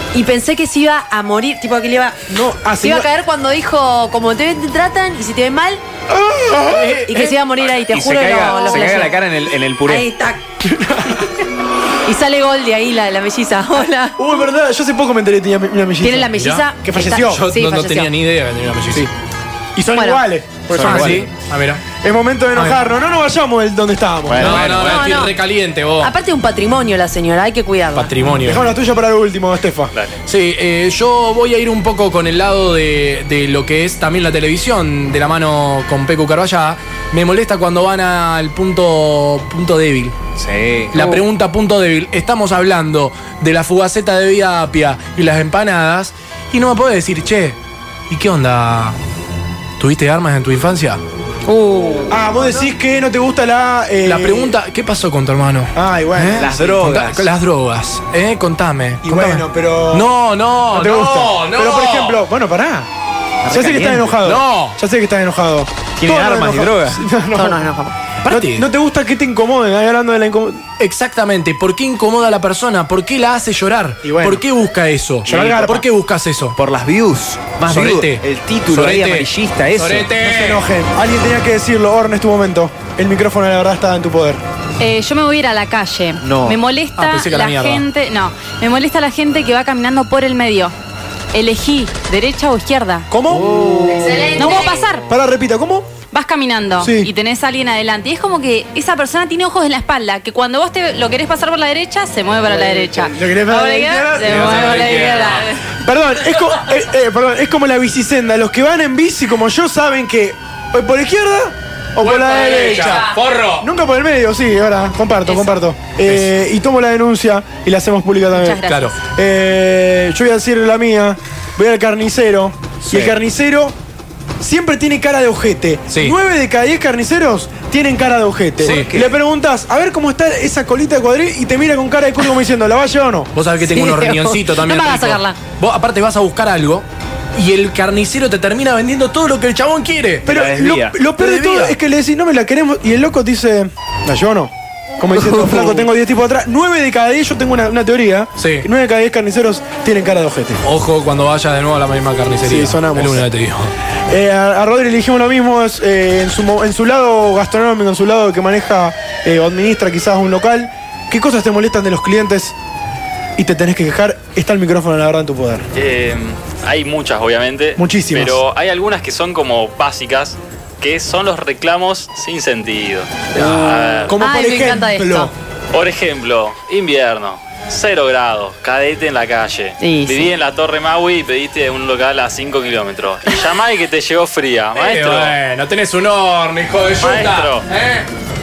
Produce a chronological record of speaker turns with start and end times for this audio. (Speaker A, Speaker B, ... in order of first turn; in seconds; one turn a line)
Speaker A: 0.1-5.8
Speaker B: 2.3-3.1
Speaker B: 6.1-7.3
Speaker C: 6.8-7.3
Speaker A: 7.1-9.2
Speaker D: 7.6-10.1
Speaker A: 9.8-10.4
Speaker A: 12.0-14.2
Speaker B: 14.2-17.4
Speaker A: 16.0-18.1
Speaker C: 16.4-16.6
Speaker C: 17.2-19.1
Speaker B: 19.7-21.3
Speaker A: 19.9-20.2
Speaker D: 20.7-21.2
Speaker C: 20.7-21.8
Speaker B: 21.9-24.8
Speaker D: 24.3-25.2
Speaker C: 24.4-26.1
Speaker A: 24.8-25.3
Speaker A: 26.0-28.1
Speaker C: 27.9-28.6
Speaker B: 28.4-29.9
Speaker E: 29.9-30.2
Speaker C: 30.2-40.1
Speaker D: 40.4-41.2
Speaker C: 40.9-47.6
Speaker C: 48.1-49.0
Speaker C: 49.8-51.0
Speaker A: 51.5-52.2
Speaker B: 52.1-54.6
Speaker C: 54.0-62.2
Speaker B: 55.7-56.6
Speaker D: 56.3-57.3
Speaker B: 59.0-60.1
Speaker B: 60.7-62.9
Speaker D: 63.4-64.2
Speaker B: 63.5-67.6
Speaker C: 64.2-64.8
Speaker D: 66.0-67.0
Speaker A: 67.3-67.9
Speaker C: 68.2-68.6
Speaker B: 68.2-70.7
Speaker C: 70.8-76.5
Speaker B: 74.0-74.4
Speaker B: 75.3-75.8
Speaker D: 76.6-80.1
Speaker C: 77.7-80.6
Speaker B: 80.2-84.4
Speaker F: 84.8-90.7
Speaker D: 86.2-86.6
Speaker C: 87.0-87.9
Speaker F: 91.3-93.1
Speaker B: 93.1-93.6
Speaker D: 93.3-94.4
Speaker A: 93.9-94.8
Speaker F: 94.3-95.0
Speaker B: 95.1-95.9
Speaker F: 96.1-105.6
Speaker B: 96.8-97.1
Speaker B: 102.5-105.0
Speaker C: 104.2-105.5
Speaker B: 105.8-123.8
Speaker C: 112.0-113.7
Speaker F: 112.5-113.0
Speaker F: 118.3-118.9
Speaker C: 118.6-118.9
Speaker D: 122.8-123.1
Speaker B: 124.4-133.3
Speaker C: 125.9-126.2
Speaker D: 128.6-129.1
Speaker C: 128.6-128.9
Speaker C: 133.3-140.3
Speaker A: 133.6-135.4
Speaker B: 140.2-150.6
Speaker D: 140.3-141.0
Speaker C: 141.1-141.7
Speaker C: 148.4-148.7
Speaker C: 150.6-153.7
Speaker B: 152.4-153.3
Speaker B: 154.1-162.6
Speaker B: 163.3-165.6
Speaker E: 165.7-174.2
Speaker B: 167.8-168.4
Speaker B: 173.3-175.3
Speaker A: 174.2-175.3
Speaker E: 175.7-185.4
Speaker A: 179.8-180.3
Speaker C: 184.7-188.1
Speaker E: 187.0-187.7